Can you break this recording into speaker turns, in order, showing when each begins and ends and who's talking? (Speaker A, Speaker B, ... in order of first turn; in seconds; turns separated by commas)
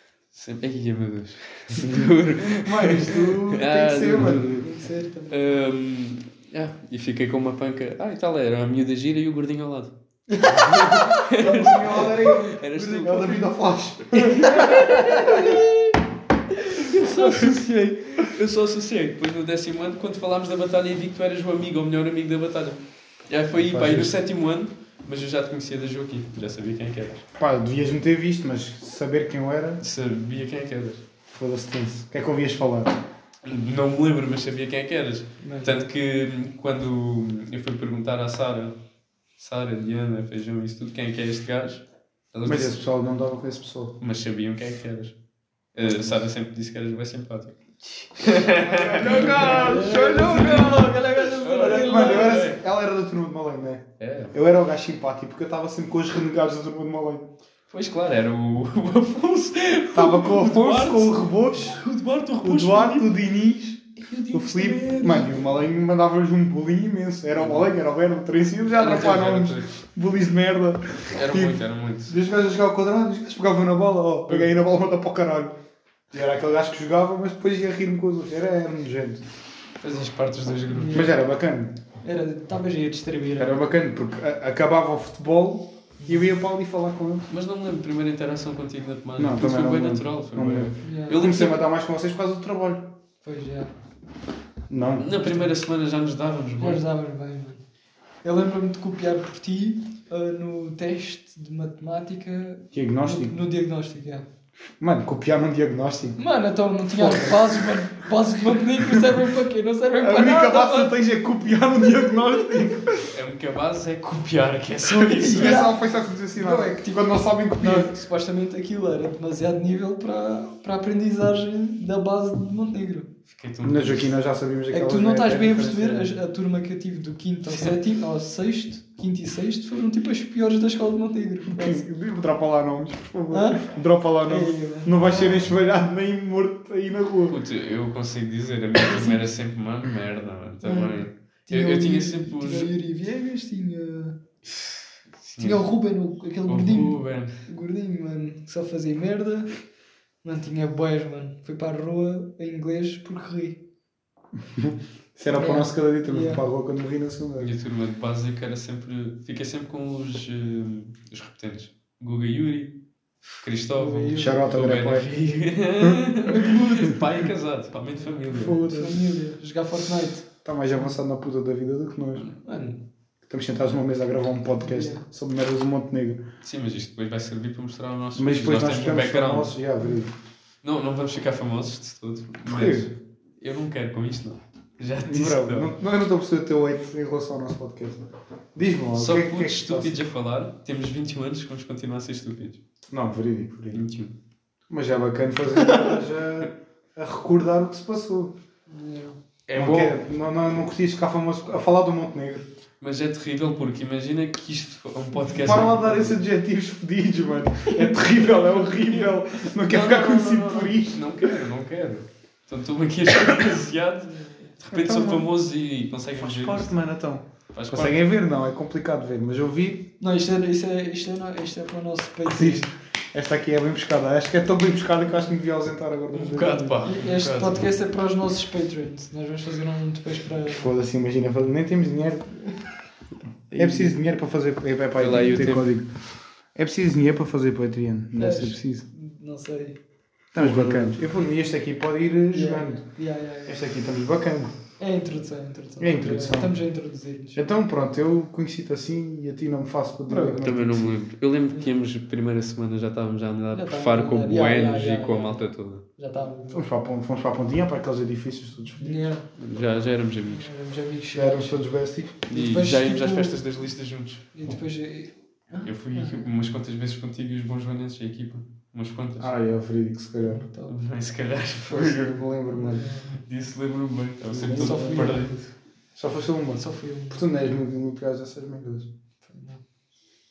Speaker A: 0.3-4.7, Speaker B: 1.8-4.6, Speaker C: 4.3-5.4, Speaker A: 5.3-13.5, Speaker C: 10.3-12.1, Speaker B: 11.4-15.6, Speaker A: 14.1-15.5, Speaker C: 14.4-15.9, Speaker A: 16.7-27.2, Speaker C: 16.8-17.6, Speaker B: 23.6-24.1, Speaker B: 27.4-29.8, Speaker A: 29.8-31.0, Speaker B: 31.3-33.0, Speaker A: 33.4-38.8, Speaker C: 35.4-35.8, Speaker A: 39.4-42.8, Speaker B: 42.4-44.0, Speaker A: 44.0-45.1, Speaker A: 45.7-52.6, Speaker B: 48.4-50.9, Speaker C: 49.0-52.5, Speaker B: 51.5-57.3, Speaker A: 54.0-54.3, Speaker A: 57.7-63.1, Speaker B: 59.9-61.8, Speaker B: 62.4-75.5, Speaker A: 64.0-65.4, Speaker A: 67.4-67.7, Speaker A: 68.7-69.7, Speaker A: 71.1-72.2, Speaker B: 76.1-79.2, Speaker A: 79.8-81.1, Speaker C: 80.7-81.2, Speaker B: 80.9-81.8, Speaker C: 82.0-83.7, Speaker B: 83.4-87.3, Speaker C: 86.0-86.2, Speaker A: 87.3-91.6, Speaker B: 89.2-93.0, Speaker C: 90.8-91.4, Speaker C: 93.2-93.7, Speaker B: 94.7-95.0, Speaker A: 95.0-96.8, Speaker C: 95.1-95.5, Speaker C: 96.6-97.6, Speaker C: 98.2-104.2, Speaker B: 102.7-103.4, Speaker B: 104.8-106.2, Speaker C: 106.2-110.9, Speaker B: 106.9-107.9, Speaker B: 108.6-109.1, Speaker B: 109.9-113.2, Speaker A: 113.1-115.7, Speaker C: 114.9-115.8, Speaker B: 115.2-117.9, Speaker C: 116.3-123.1, Speaker A: 123.3-124.1, Speaker B: 123.6-126.1, Speaker C: 124.7-131.8, Speaker B: 131.5-137.4, Speaker C: 133.3-133.7, Speaker C: 134.2-135.0, Speaker A: 137.3-142.7, Speaker C: 138.8-139.2, Speaker C: 140.6-144.2, Speaker A: 145.2-145.7, Speaker C: 145.4-149.5, Speaker A: 146.4-147.3, Speaker C: 150.2-153.6, Speaker B: 154.4-157.5, Speaker C: 155.3-156.4, Speaker A: 157.4-162.7, Speaker A: 163.4-168.6, Speaker C: 163.7-164.4, Speaker B: 164.1-165.1, Speaker C: 166.2-167.0, Speaker C: 168.0-170.3, Speaker B: 168.3-169.0, Speaker B: 170.4-172.3, Speaker C: 172.4-172.8, Speaker B: 173.2-176.2, Speaker C: 174.6-175.0, Speaker A: 176.4-179.6, Speaker B: 178.2-180.1, Speaker A: 180.6-185.7, Speaker B: 182.4-182.9, Speaker B: 185.0-190.0, Speaker A: 188.9-192.6, Speaker B: 192.9-193.8, Speaker A: 193.7-194.1, Speaker B: 194.7-198.3, Speaker C: 198.7-199.2, Speaker A: 199.5-199.9, Speaker B: 199.5-202.5, Speaker A: 202.8-206.2, Speaker B: 205.2-211.4, Speaker C: 207.7-209.0, Speaker A: 209.6-216.7, Speaker C: 214.0-214.5, Speaker B: 214.7-215.3, Speaker B: 216.2-219.9, Speaker A: 217.5-218.1, Speaker C: 220.0-222.7, Speaker B: 222.2-226.8, Speaker A: 226.1-227.7, Speaker C: 226.8-230.7, Speaker B: 230.4-232.3, Speaker A: 233.5-233.9, Speaker B: 233.5-235.9, Speaker A: 235.0-235.7, Speaker B: 236.5-238.8, Speaker C: 238.1-239.8, Speaker B: 240.3-242.8, Speaker A: 240.3-241.0, Speaker C: 242.3-243.7, Speaker B: 243.4-244.5, Speaker C: 244.8-247.4, Speaker B: 245.8-246.5, Speaker B: 247.3-251.0, Speaker C: 250.1-250.4, Speaker A: 250.4-255.8, Speaker C: 251.5-251.8, Speaker C: 253.5-255.4, Speaker C: 256.0-256.7, Speaker B: 256.5-259.1, Speaker C: 258.8-259.2, Speaker A: 259.4-260.5, Speaker C: 260.3-261.6, Speaker B: 261.1-262.2, Speaker A: 262.3-264.2, Speaker C: 262.3-263.4, Speaker C: 264.3-266.3, Speaker A: 265.6-269.3, Speaker B: 269.2-270.4, Speaker C: 270.2-270.7, Speaker A: 270.7-272.2, Speaker B: 271.7-272.9, Speaker C: 272.5-273.2, Speaker A: 273.1-275.4, Speaker B: 274.3-275.3, Speaker C: 274.5-275.4, Speaker B: 275.9-278.9, Speaker C: 276.5-277.2, Speaker C: 279.2-279.6